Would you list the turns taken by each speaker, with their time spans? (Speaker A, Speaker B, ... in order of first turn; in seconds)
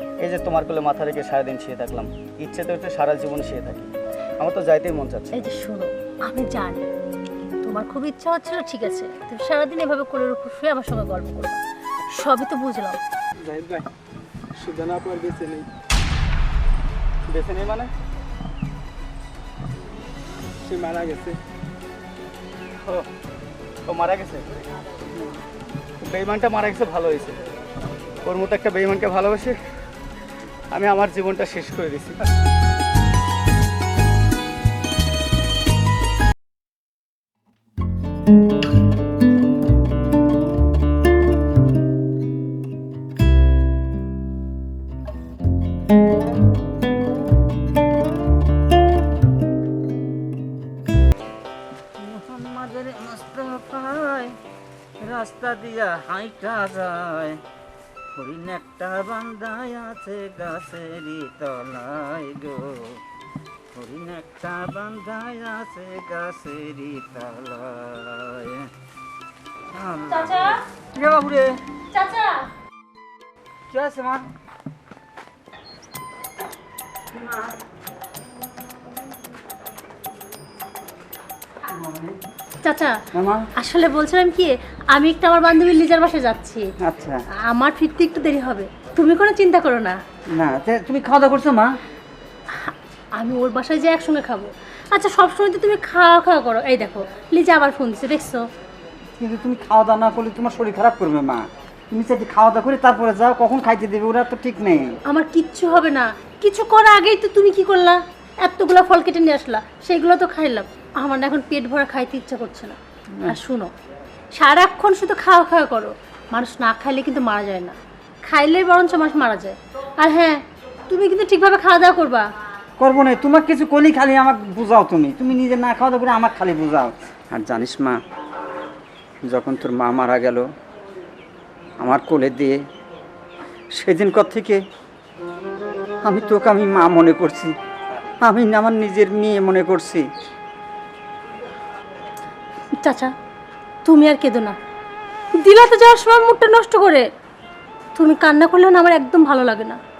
Speaker A: 0.2-5.5, 17.3-17.9, 23.9-24.5, 26.0-27.4, 28.2-29.6, 30.7-32.3
Speaker B: 5.4-6.9, 7.6-11.6, 12.2-13.0, 70.1-70.6, 71.9-72.5, 82.6-83.0, 83.6-86.7, 87.5-90.0, 92.6-98.4, 105.1-113.7, 114.3-122.2, 142.8-143.1, 143.8-144.6, 145.4-147.1, 148.0-149.8
Speaker C: 13.4-13.9, 14.6-15.7, 20.6-21.4
Speaker D: 52.0-54.3, 55.0-57.4, 58.1-63.0, 63.7-68.7, 69.7-71.6, 73.7-74.2, 77.1-77.5, 81.7-82.2, 83.2-83.5, 86.8-87.2, 90.4-91.7, 99.2-104.9, 122.8-128.0, 129.2-130.5, 131.8-132.6, 133.7-134.6, 136.0-137.5, 138.2-140.0